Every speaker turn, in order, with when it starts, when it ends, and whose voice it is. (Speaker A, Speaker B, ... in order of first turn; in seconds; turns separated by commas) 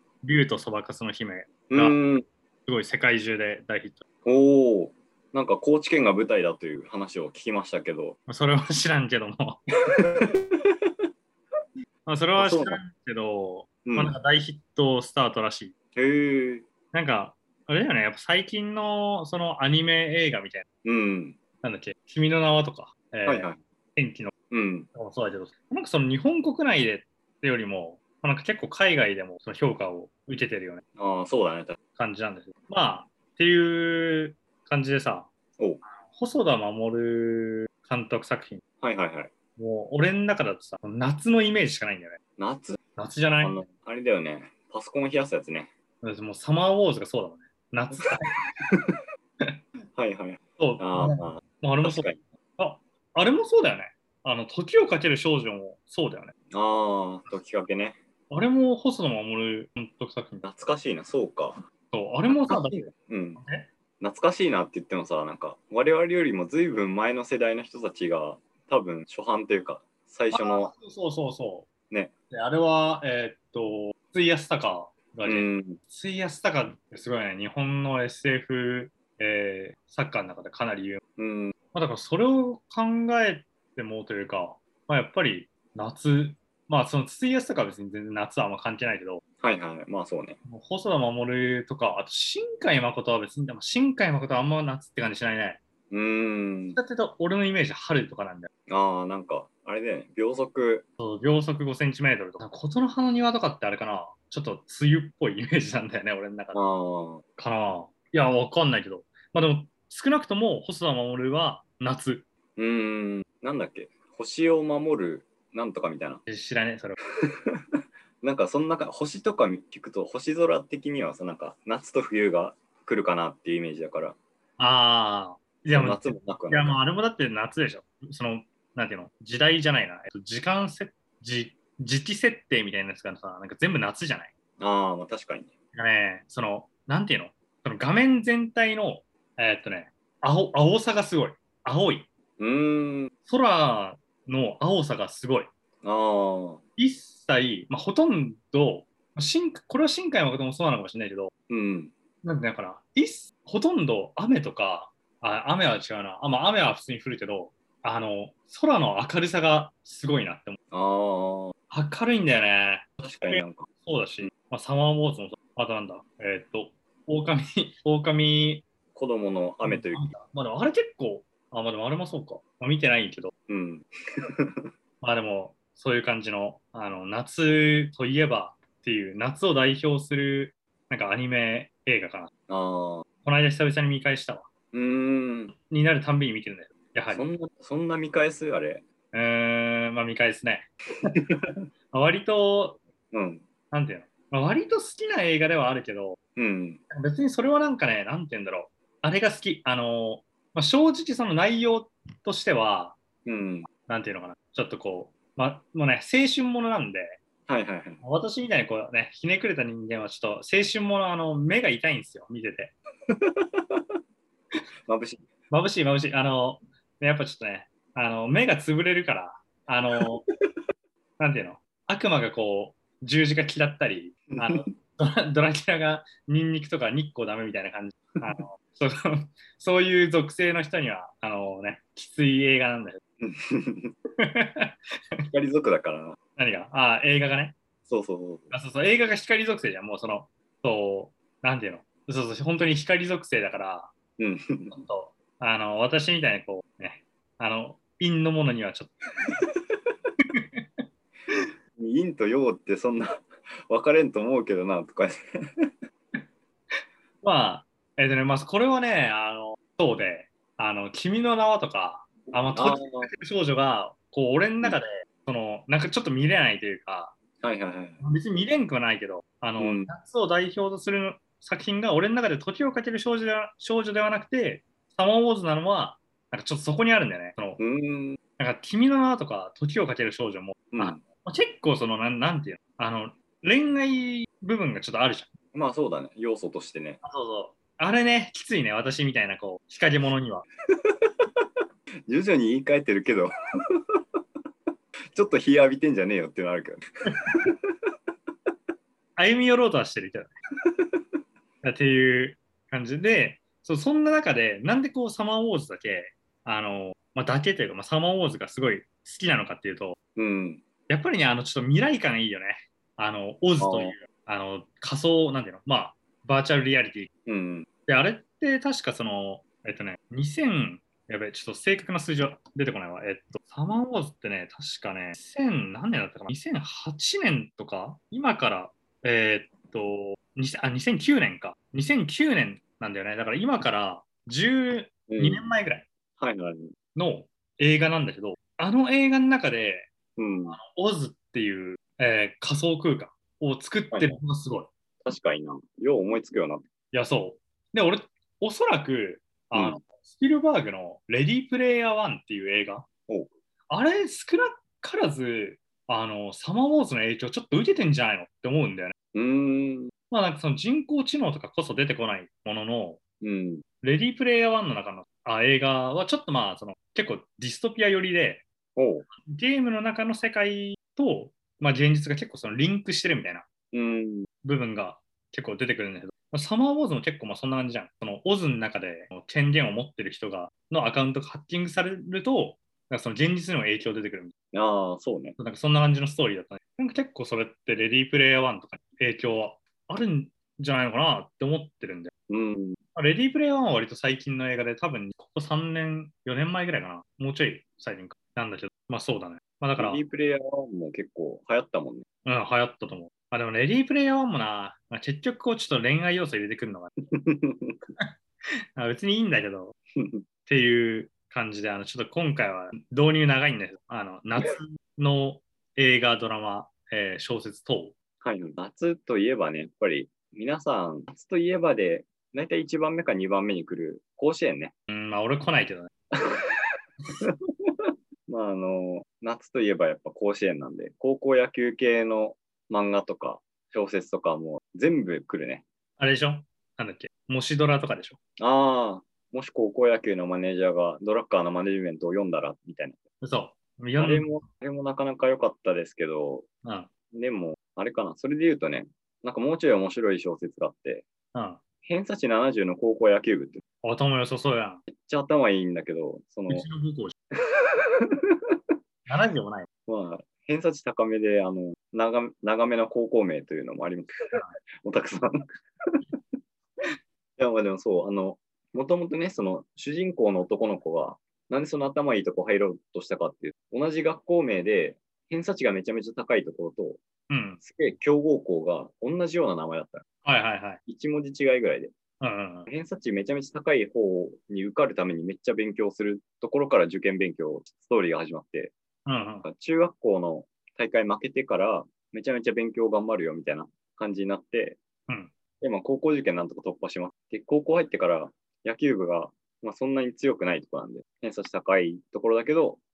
Speaker A: 0.2-2.0, Speaker B: 1.7-2.3, Speaker A: 2.7-4.0, Speaker B: 4.2-8.2, Speaker A: 8.3-9.6, Speaker B: 9.9-10.4, Speaker A: 12.1-15.7, Speaker B: 12.4-12.8, Speaker B: 13.9-14.2, Speaker B: 15.9-16.7, Speaker A: 16.9-20.6, Speaker B: 20.9-21.4, Speaker A: 21.6-24.3, Speaker B: 23.2-23.6, Speaker B: 24.5-24.9, Speaker A: 24.9-30.8, Speaker B: 31.0-31.8, Speaker A: 32.0-35.3, Speaker A: 35.9-38.6, Speaker B: 38.8-39.3, Speaker A: 39.6-42.2, Speaker B: 42.4-42.8, Speaker A: 43.0-43.6, Speaker B: 43.4-45.7, Speaker A: 46.0-48.4, Speaker B: 48.0-48.9, Speaker B: 49.9-52.2, Speaker A: 50.6-56.3, Speaker B: 56.5-58.0, Speaker A: 58.3-60.5, Speaker B: 60.4-61.6, Speaker A: 61.9-63.7, Speaker B: 62.3-63.4, Speaker B: 64.0-70.7, Speaker A: 70.3-71.7, Speaker A: 72.3-81.0, Speaker B: 75.2-75.8, Speaker B: 81.2-81.5, Speaker A: 81.7-89.2, Speaker B: 89.4-90.4, Speaker A: 90.5-95.6, Speaker B: 95.9-96.8, Speaker A: 96.7-98.5, Speaker B: 98.7-100.8, Speaker A: 101.0-106.6, Speaker B: 106.5-107.2, Speaker A: 107.4-112.2, Speaker B: 112.6-116.2, Speaker A: 116.3-117.0, Speaker B: 117.2-117.6, Speaker B: 118.2-124.2, Speaker A: 124.6-134.3, Speaker B: 125.7-126.8, Speaker B: 134.6-135.5, Speaker A: 135.7-142.1, Speaker B: 142.4-143.1, Speaker A: 143.3-145.5, Speaker B: 145.8-146.6, Speaker A: 146.8-151.3, Speaker B: 151.5-151.9, Speaker A: 152.2-160.6, Speaker B: 160.7-161.5, Speaker A: 161.7-168.6, Speaker B: 163.0-163.7, Speaker B: 168.9-170.1, Speaker A: 169.6-173.3, Speaker B: 173.5-174.7, Speaker A: 175.0-182.3, Speaker B: 182.5-183.0, Speaker A: 183.2-184.5, Speaker B: 184.7-185.5, Speaker A: 185.5-187.2, Speaker B: 187.1-188.8, Speaker A: 189.1-192.8, Speaker B: 193.1-193.4, Speaker A: 193.7-196.2, Speaker B: 196.3-196.8, Speaker A: 196.9-203.0, Speaker B: 203.2-203.7, Speaker A: 203.8-207.2, Speaker B: 207.5-208.0, Speaker A: 208.0-212.7, Speaker B: 213.1-213.8, Speaker B: 214.9-215.2, Speaker A: 215.5-220.2, Speaker A: 221.2-233.0, Speaker B: 224.3-224.7, Speaker B: 233.2-233.9, Speaker A: 234.2-235.2, Speaker B: 235.3-236.2, Speaker A: 236.3-237.6, Speaker B: 237.9-238.5, Speaker A: 238.5-243.9, Speaker B: 244.2-244.8, Speaker A: 244.7-248.9, Speaker A: 250.3-250.6, Speaker B: 251.8-255.7, Speaker A: 257.2-267.1, Speaker B: 262.5-263.1, Speaker B: 267.4-268.0, Speaker A: 268.0-277.6, Speaker B: 269.6-269.9, Speaker B: 277.6-278.2, Speaker A: 278.4-285.3, Speaker B: 280.7-281.0, Speaker B: 285.5-287.0, Speaker A: 287.0-290.4, Speaker B: 292.1-293.8, Speaker B: 295.1-297.6, Speaker A: 299.2-300.3, Speaker A: 301.6-309.9, Speaker B: 310.1-310.6, Speaker A: 310.9-317.1, Speaker B: 313.6-313.9, Speaker B: 317.3-317.7, Speaker A: 317.9-335.9, Speaker B: 335.1-335.4, Speaker B: 336.2-336.7, Speaker A: 336.9-339.9, Speaker B: 340.2-340.6, Speaker A: 340.5-344.7, Speaker B: 345.1-346.6, Speaker A: 346.9-352.9, Speaker B: 349.5-349.8, Speaker A: 353.7-358.9, Speaker B: 359.1-359.9, Speaker A: 360.1-363.0, Speaker B: 363.2-363.6, Speaker A: 363.8-368.4, Speaker B: 368.8-369.1, Speaker A: 369.2-373.4, Speaker B: 373.7-374.3, Speaker A: 374.4-384.3, Speaker B: 384.5-385.4, Speaker A: 385.4-392.1, Speaker B: 392.3-392.8, Speaker A: 392.9-400.0, Speaker B: 399.8-402.1, Speaker A: 402.2-406.9, Speaker B: 407.1-407.8, Speaker A: 408.8-409.8, Speaker B: 409.9-410.2, Speaker A: 410.4-417.9, Speaker B: 418.2-424.7, Speaker A: 424.9-425.9, Speaker B: 426.1-426.6, Speaker B: 427.2-435.6, Speaker A: 436.0-438.2, Speaker B: 438.4-443.0, Speaker A: 443.2-444.3, Speaker B: 444.0-446.5, Speaker A: 446.6-446.9, Speaker B: 447.1-451.1, Speaker A: 451.3-451.6, Speaker B: 451.8-453.6, Speaker A: 453.8-454.8, Speaker B: 454.9-456.6, Speaker A: 456.5-457.1, Speaker B: 457.6-458.2, Speaker A: 459.1-459.7, Speaker B: 459.9-465.5, Speaker B: 467.4-477.0, Speaker A: 477.3-477.6, Speaker B: 477.6-480.0, Speaker A: 480.2-480.8, Speaker B: 480.9-481.9, Speaker A: 482.2-482.7, Speaker B: 482.7-488.7, Speaker A: 489.1-489.4, Speaker B: 489.4-494.8, Speaker A: 495.1-495.3, Speaker B: 495.6-502.8